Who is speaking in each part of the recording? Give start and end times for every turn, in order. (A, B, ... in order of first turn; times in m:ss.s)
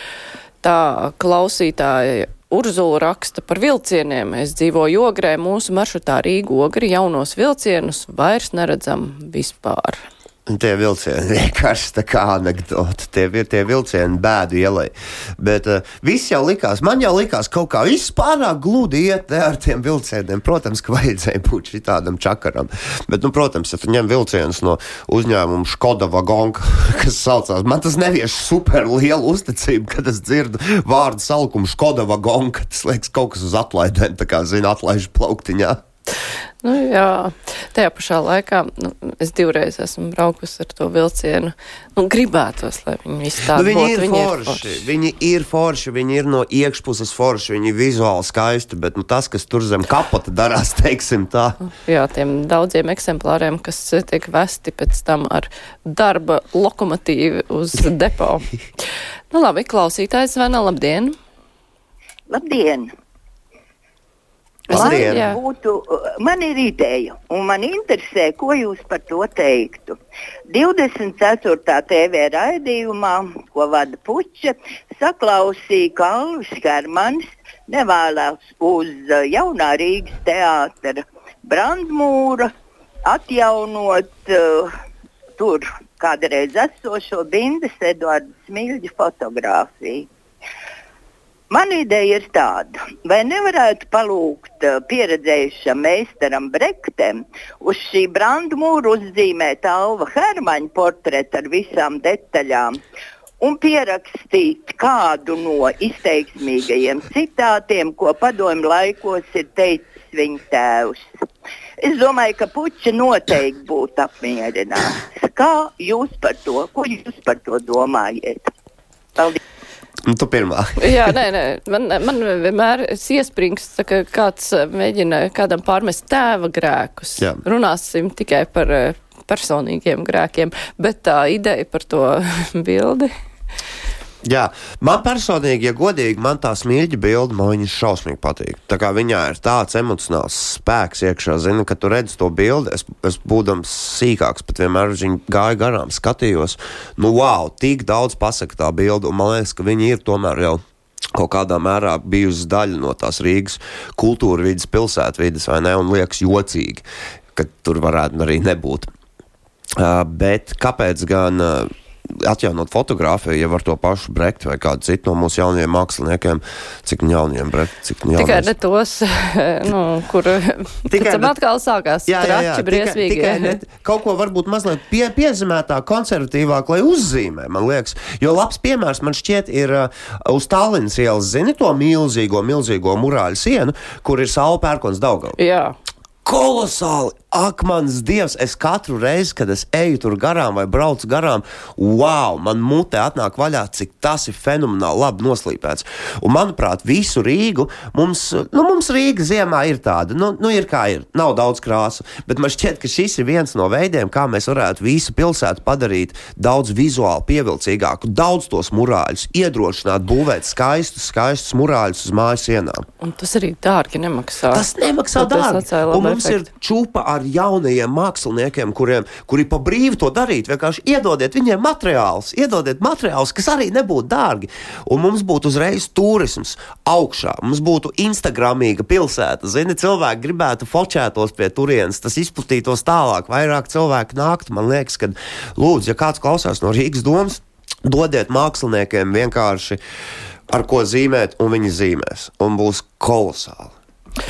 0:00.6-0:10.0 A
0:10.5-0:35.8 B
0:36.6-0:44.9 A
0:43.5-0:51.6 B
0:51.7-0:58.5 A
0:59.3-1:01.2 A
1:02.3-1:02.9 C
1:04.7-1:05.3 B
1:04.7-1:10.0 C
1:04.7-1:05.4 A
1:10.5-1:22.5 C
1:23.0-1:24.7 C
1:25.4-1:30.1 C
1:31.5-1:42.8 C
1:43.4-1:51.0 C
1:51.8-1:58.5 C
2:00.0-2:01.1 B
2:00.8-2:13.1 A
2:14.2-2:30.6 B
2:31.1-2:38.9 B
2:39.8-2:48.5 B
2:48.2-2:53.6 A
2:50.9-2:51.4 B
2:52.1-3:05.4 B
3:05.4-3:05.8 A
3:06.2-3:32.9 B
3:33.0-3:34.6 A
3:34.5-3:59.8 B
3:35.2-3:36.4 A
4:00.5-4:03.7 B